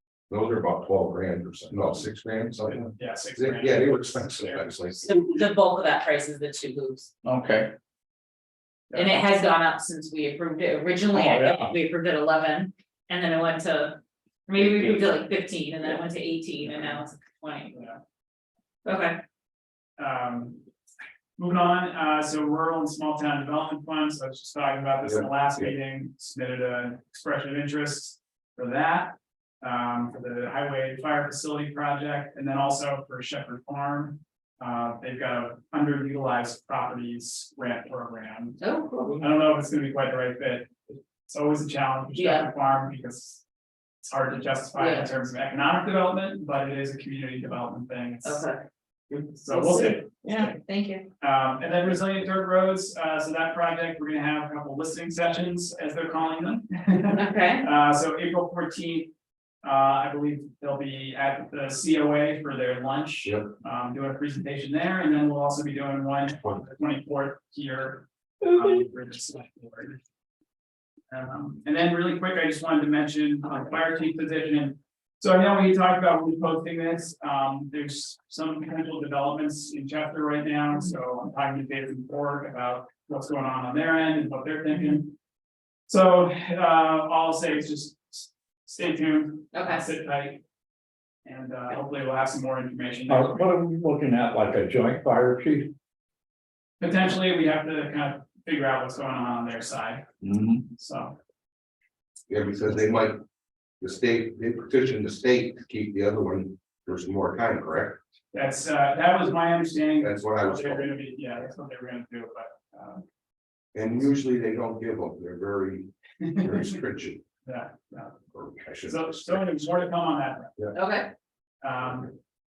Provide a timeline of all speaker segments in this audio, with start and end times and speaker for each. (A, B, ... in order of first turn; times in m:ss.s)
0:00.3-0:05.0 A
0:02.6-0:05.4 B
0:05.0-0:07.1 C
0:07.2-0:07.7 D
0:08.9-0:17.8 C
0:11.1-0:11.7 D
0:17.7-0:18.0 B
0:18.8-0:19.2 C
0:20.0-0:20.6 B
0:21.4-0:43.4 B
0:25.0-0:25.7 A
0:38.6-0:39.2 C
0:42.2-0:42.5 C
0:44.0-0:48.5 B
0:44.8-0:45.1 C
0:48.2-0:48.6 C
0:49.1-0:50.6 B
0:49.5-0:51.1 C
0:51.2-0:59.1 B
0:57.1-0:57.7 C
0:59.6-1:10.0 B
1:03.2-1:03.5 A
1:11.1-1:25.2 B
1:25.9-1:30.4 B
1:29.5-1:29.8 C
1:31.2-1:33.5 B
1:33.1-1:35.7 D
1:36.8-1:40.1 B
1:40.2-1:40.6 D
1:40.7-1:41.2 B
1:42.3-1:43.2 A
1:43.8-1:48.0 A
1:48.3-1:53.0 B
1:50.0-1:50.9 A
1:53.7-1:57.2 A
1:56.2-1:56.6 B
1:57.4-1:58.2 B
1:58.3-1:59.5 A
1:58.9-2:00.7 B
2:00.8-2:01.1 C
2:01.6-2:02.2 B